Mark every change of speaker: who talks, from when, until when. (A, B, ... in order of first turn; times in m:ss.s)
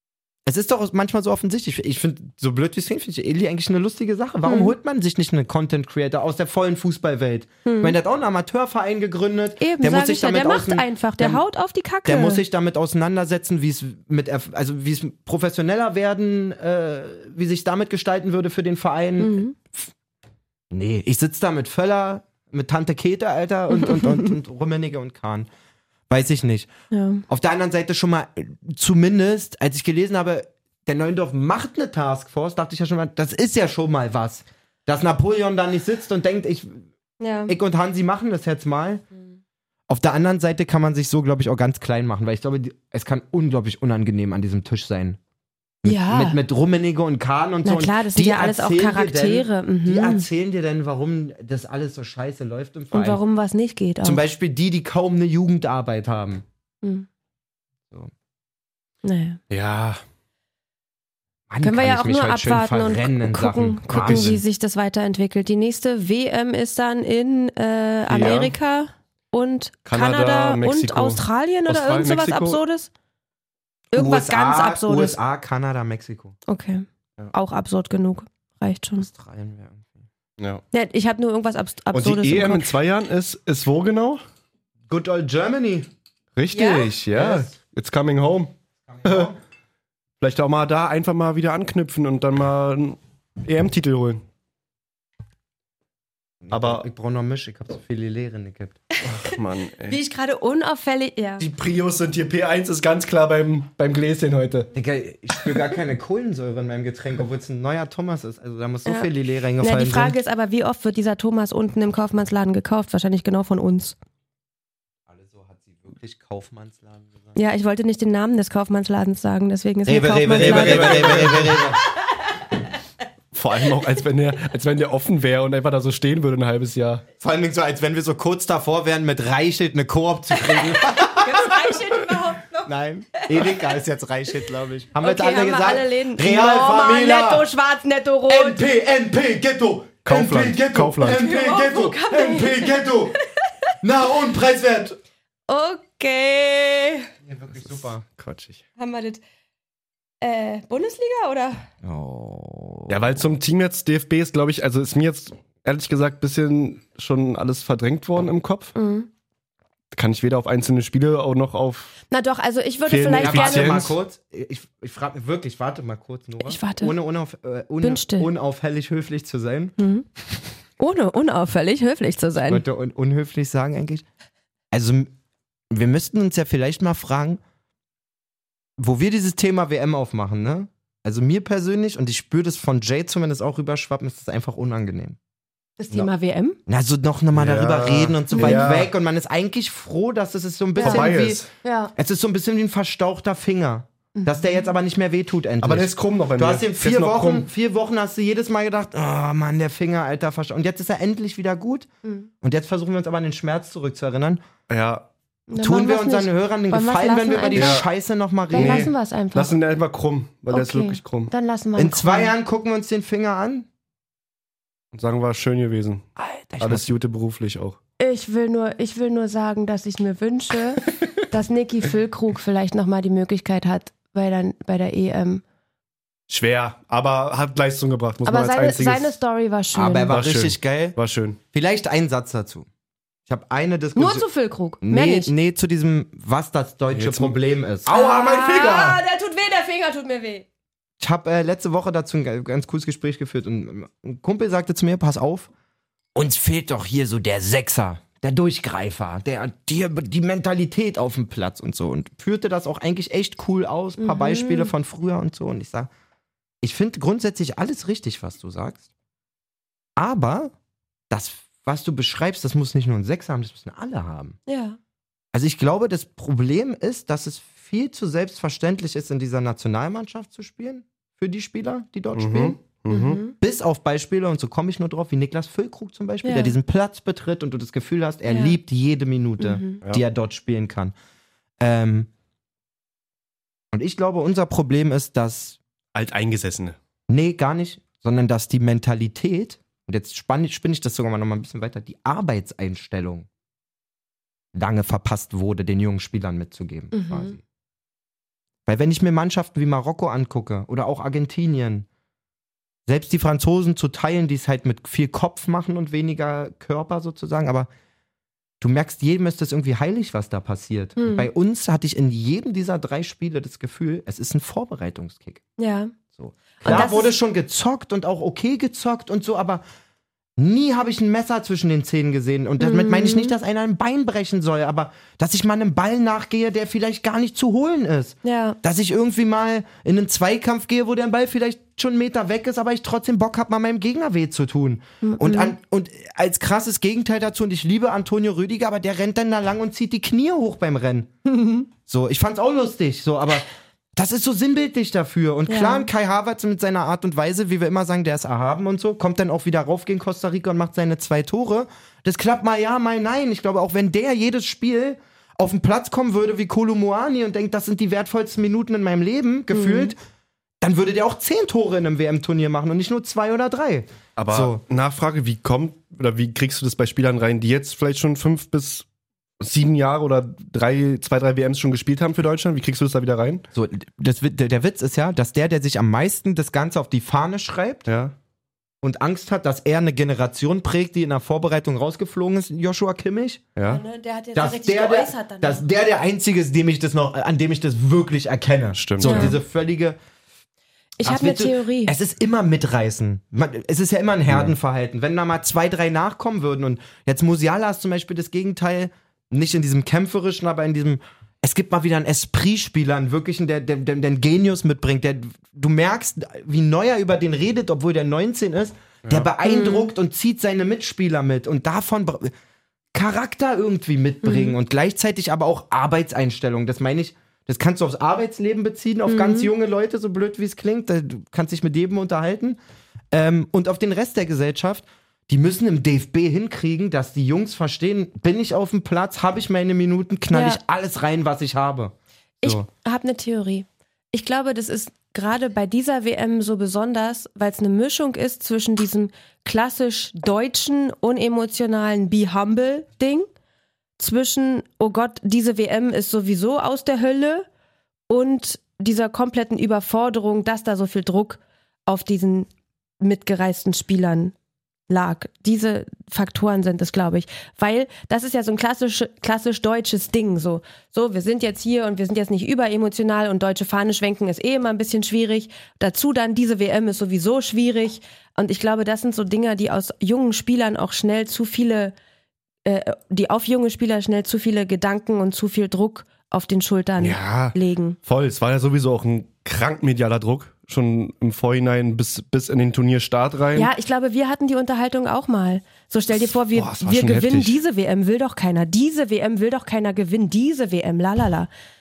0:00.5-0:11.4 A
0:04.4-0:04.7 B
0:07.7-0:08.0 B
0:09.6-0:12.4 B
0:12.1-0:19.9 A
0:19.2-0:19.5 B
0:20.7-0:25.5 A
0:26.1-0:26.7 A
0:26.9-0:27.2 B
0:27.3-0:36.9 A
0:37.2-0:37.5 B
0:37.5-0:39.0 A
0:39.9-0:45.2 A
0:45.8-0:53.2 A
0:45.8-0:46.4 B
0:47.6-0:50.3 B
0:52.9-0:54.2 B
0:54.0-0:56.4 A
0:59.0-0:59.4 B
0:59.5-1:00.0 C
1:01.5-1:04.4 A
1:01.6-1:12.9 B
1:03.9-1:04.4 C
1:08.1-1:08.6 C
1:09.9-1:12.6 C
1:13.9-1:15.2 B
1:14.0-1:16.4 A
1:16.5-1:19.1 B
1:19.0-1:20.1 A
1:20.7-1:22.7 B
1:21.9-1:24.2 C
1:24.9-1:25.9 A
1:26.4-1:28.5 C
1:26.5-1:26.9 B
1:27.1-1:27.5 A
1:28.8-1:29.4 A
1:29.0-1:29.3 C
1:30.2-1:34.2 C
1:36.4-1:38.8 A
1:36.5-1:36.9 C
1:39.1-1:40.0 C
1:39.9-1:41.5 B
1:41.4-1:44.7 C
1:44.7-1:50.2 A
1:48.9-1:54.0 B
1:55.1-1:57.4 A
1:57.4-2:01.5 B
1:59.8-2:01.8 A
2:00.3-2:01.6 C
2:03.3-2:07.0 C
2:07.2-2:11.8 A
2:10.7-2:13.6 B
2:12.6-2:17.5 A
2:15.0-2:18.6 B
2:18.3-2:23.2 A
2:20.0-2:21.3 C
2:21.1-2:23.7 B
2:23.8-2:25.0 A
2:25.5-2:27.1 B
2:27.2-2:28.0 A
2:27.6-2:28.6 C
2:28.8-2:29.2 B
2:30.2-2:31.6 B
2:31.8-2:33.2 A
2:32.9-2:38.8 C
2:38.8-2:39.1 B
2:39.9-2:41.9 C
2:42.1-2:43.8 B
2:42.9-2:44.0 C
2:43.1-2:49.7 A
2:46.4-2:46.9 B
2:47.8-2:48.3 B
2:49.8-2:50.1 B
2:50.8-2:52.6 B
2:52.5-2:54.0 A
2:54.7-2:55.1 A
2:55.7-2:57.4 A
2:58.8-3:05.2 A
3:05.8-3:06.6 B
3:06.7-3:11.4 A
3:07.3-3:08.9 C
3:08.4-3:08.7 B
3:10.8-3:11.9 B
3:10.8-3:11.5 C
3:12.0-3:21.9 A
3:14.2-3:14.7 B
3:15.6-3:17.5 C
3:22.0-3:22.3 B
3:22.4-3:24.4 A
3:24.7-3:25.1 C
3:25.5-3:27.9 B
3:25.6-3:28.9 A
3:27.5-3:27.8 C
3:28.5-3:29.6 B
3:28.6-3:31.3 C
3:30.5-3:32.3 B
3:31.8-3:33.7 A
3:34.9-3:36.1 C
3:36.2-3:36.9 A
3:36.6-3:37.8 C
3:38.0-3:45.4 B
3:46.3-3:49.1 C
3:48.2-3:50.1 B
3:49.7-3:51.0 A
3:50.1-3:51.4 C
3:51.5-3:52.7 A
3:53.3-3:54.2 A
3:54.0-3:55.3 B
3:54.8-3:59.0 A
3:56.9-3:57.4 C
3:57.9-4:00.4 B
4:01.0-4:05.5 A
4:06.2-4:15.9 A
4:14.0-4:14.7 B
4:16.6-4:18.9 A
4:20.0-4:20.5 A
4:21.1-4:24.4 A
4:24.5-4:24.8 B
4:25.3-4:32.6 A
4:32.2-4:33.2 C
4:32.9-4:33.3 B
4:33.4-4:40.9 A
4:36.2-4:36.6 B
4:38.3-4:38.6 B
4:39.4-4:39.8 B
4:41.6-4:42.1 A
4:43.7-4:45.6 A
4:46.0-4:46.8 C
4:47.1-4:53.3 A
4:54.5-4:57.4 A
4:56.9-4:57.3 B
4:58.7-5:01.9 A
5:02.9-5:07.7 A
5:08.6-5:15.4 A
5:11.0-5:11.3 B
5:15.6-5:16.0 B
5:16.1-5:19.6 A
5:16.6-5:17.1 B
5:20.4-5:41.1 A
5:22.6-5:23.3 B
5:28.2-5:28.6 B
5:35.0-5:35.6 B
5:41.3-5:41.7 B
5:41.9-5:43.4 A
5:44.0-6:00.0 A
5:45.5-5:45.9 B
5:59.5-5:59.9 B
6:00.6-6:04.6 A
6:04.2-6:08.9 C
6:09.4-6:13.4 C
6:13.5-6:17.9 A
6:17.9-6:18.1 C
6:18.8-6:23.5 A
6:23.6-6:23.8 C
6:23.7-6:25.6 B
6:24.4-6:30.0 A
6:28.8-6:29.4 C
6:29.0-6:29.4 B
6:31.0-6:31.9 B
6:31.0-6:52.3 A
6:49.4-6:49.9 B
6:52.9-7:02.6 A
6:54.2-6:54.6 B
6:59.1-6:59.5 B
7:03.1-7:12.7 A
7:10.3-7:10.6 B
7:12.4-7:23.3 B
7:24.0-7:27.5 B
7:28.1-7:32.5 B
7:33.0-7:34.3 B
7:34.9-7:51.9 B
7:52.6-7:58.0 B
7:57.0-8:03.7 C
8:03.6-8:11.5 B
8:06.5-8:07.6 C